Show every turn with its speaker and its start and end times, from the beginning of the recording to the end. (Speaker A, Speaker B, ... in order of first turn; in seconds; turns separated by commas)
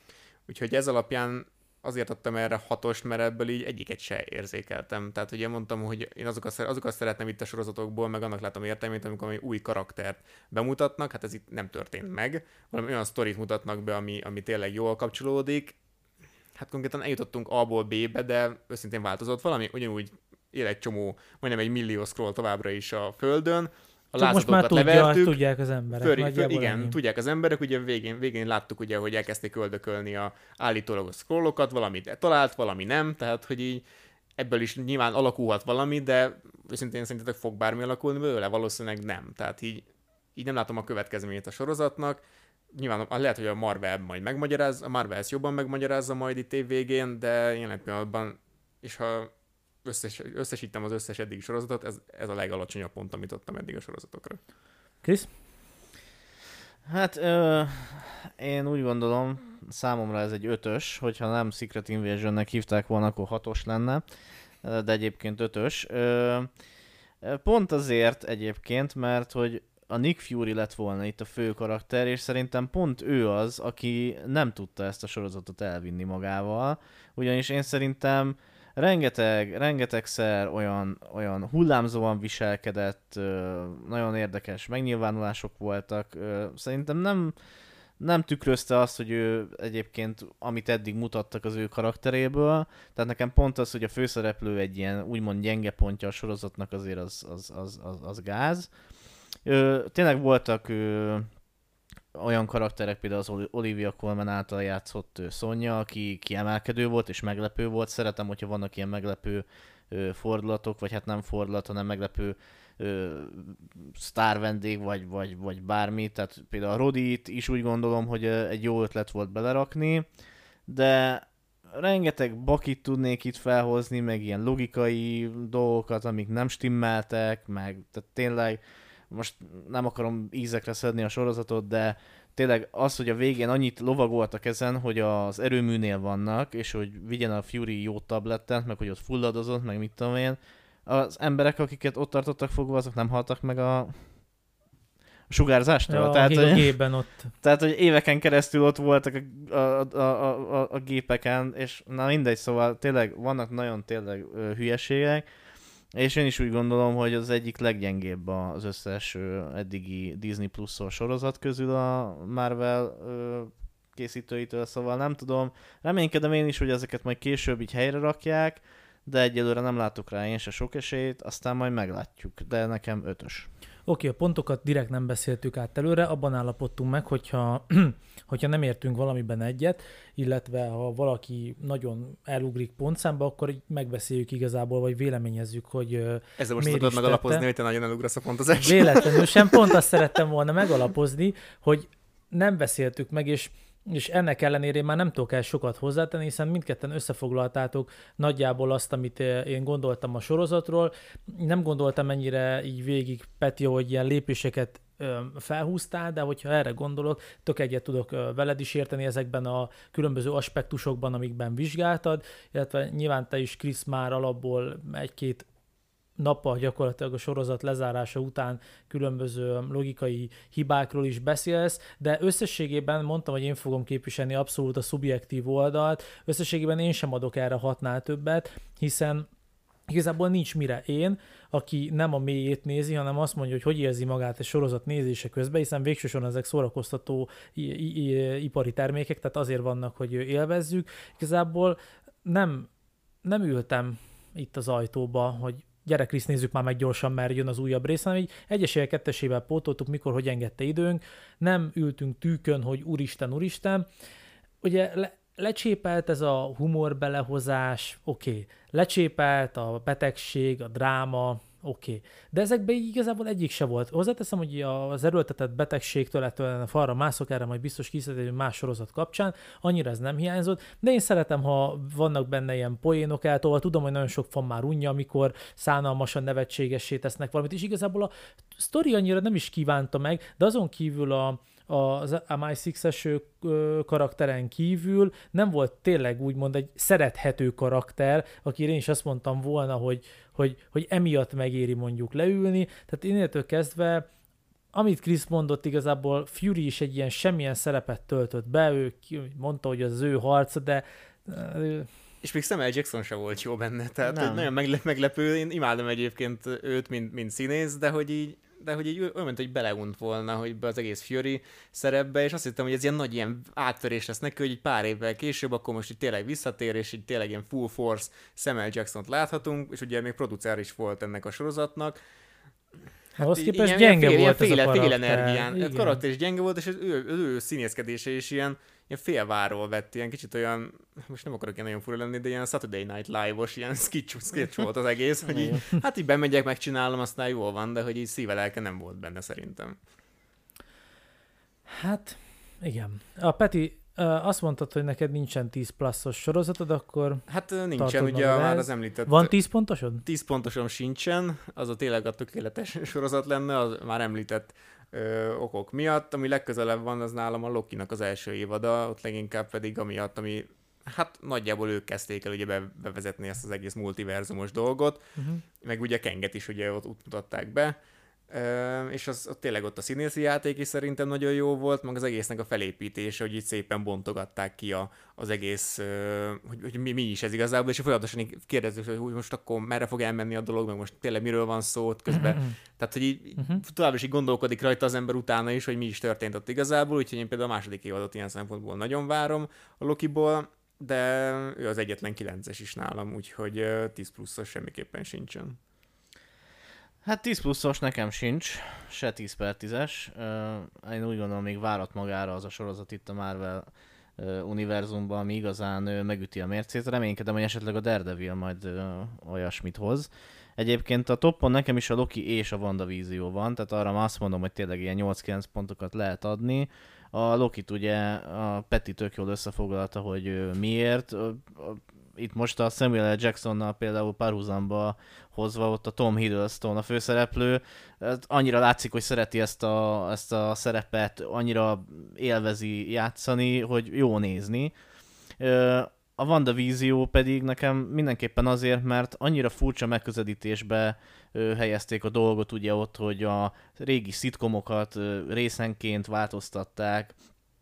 Speaker A: 0.5-15.7, Speaker A: 16.6-25.4, Speaker B: 24.2-27.0, Speaker A: 25.9-33.8, Speaker A: 34.4-39.8, Speaker A: 40.4-42.2, Speaker A: 42.7-49.3, Speaker A: 49.8-54.4, Speaker B: 55.0-55.3, Speaker C: 56.9-64.0, Speaker C: 64.6-66.5, Speaker C: 67.2-87.3, Speaker C: 88.0-98.7, Speaker C: 99.4-101.3, Speaker C: 102.1-120.1, Speaker C: 120.7-144.0, Speaker C: 145.3-146.8, Speaker B: 145.9-147.3, Speaker C: 147.4-155.2, Speaker C: 155.9-173.5, Speaker B: 173.9-187.4, Speaker A: 186.4-189.8, Speaker B: 188.6-215.4, Speaker B: 216.2-229.3, Speaker B: 229.9-242.7, Speaker B: 243.2-253.8, Speaker B: 254.6-294.1, Speaker B: 294.7-301.9, Speaker A: 302.2-322.0, Speaker C: 304.0-304.5, Speaker B: 323.2-326.0, Speaker A: 323.2-339.8, Speaker C: 335.3-335.6, Speaker B: 341.7-347.2, Speaker A: 347.3-349.3, Speaker B: 347.8-350.0, Speaker A: 350.0-365.0, Speaker B: 365.2-365.4, Speaker A: 365.6-367.8, Speaker A: 368.3-395.6, Speaker B: 382.1-382.5, Speaker C: 397.0-434.7, Speaker C: 435.4-447.1